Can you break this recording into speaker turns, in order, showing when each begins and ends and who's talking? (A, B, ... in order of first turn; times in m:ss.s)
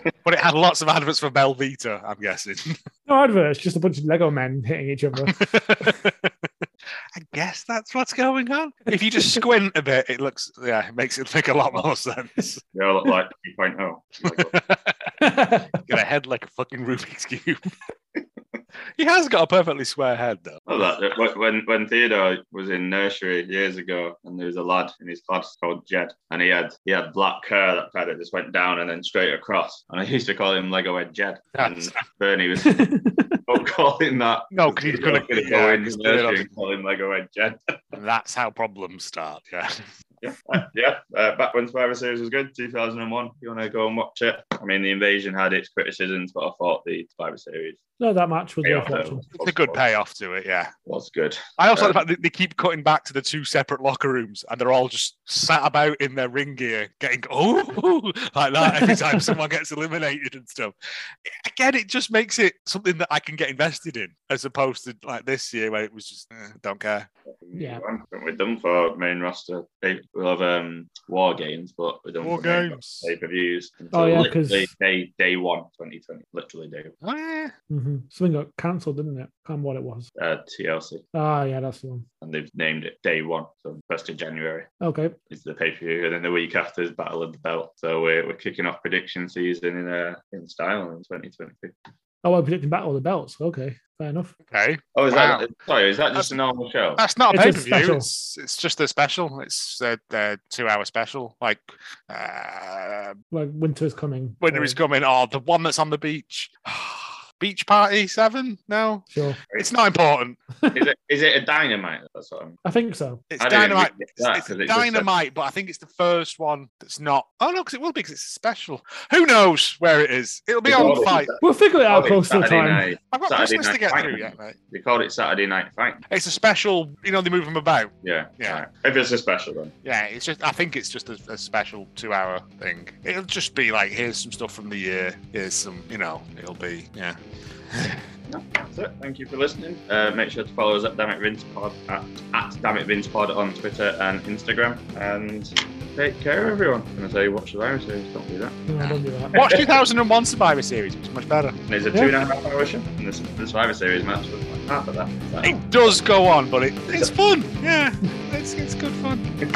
0:00.2-0:02.8 A
0:03.1-0:05.4 B
0:05.3-0:06.3 A
0:07.2-0:12.6 A
0:12.7-0:14.6 C
0:14.3-0:15.1 A
0:15.2-0:15.8 B
0:15.8-0:17.7 A
0:19.0-0:20.6 A
0:20.7-0:32.9 C
0:31.6-0:32.0 A
0:32.6-0:33.4 B
0:33.5-0:38.0 C
0:34.5-0:36.5 A
0:37.9-0:39.9 A
0:40.2-0:47.8 C
0:48.0-0:49.2 B
0:48.6-0:49.8 C
0:49.3-0:50.7 A
0:50.9-0:52.0 C
0:51.6-1:00.7 A
1:01.2-1:07.1 A
1:07.3-1:17.0 C
1:12.2-1:13.1 A
1:13.9-1:14.7 B
1:17.0-1:17.5 A
1:17.7-1:20.1 B
1:20.2-1:21.0 C
1:21.1-1:22.0 B
1:22.2-1:24.7 C
1:24.8-1:25.2 B
1:25.3-1:31.7 C
1:32.2-1:34.3 B
1:34.4-1:35.5 A
1:35.0-1:37.0 C
1:37.0-1:43.2 A
1:37.3-1:38.1 B
1:43.3-1:44.8 B
1:44.4-1:50.4 A
1:49.1-1:49.4 B
1:50.7-1:52.6 C
1:52.6-1:53.2 B
1:53.3-2:01.3 A
1:53.4-1:55.1 C
2:00.6-2:06.0 C
2:00.8-2:02.9 B
2:03.1-2:04.6 A
2:06.1-2:08.6 A
2:08.0-2:09.7 C
2:09.8-2:17.2 A
2:17.7-2:18.1 A
2:18.3-2:28.7 C
2:28.7-2:29.3 B
2:28.8-2:31.6 A
2:29.3-2:29.8 C
2:31.7-2:36.0 C
2:35.4-2:39.3 A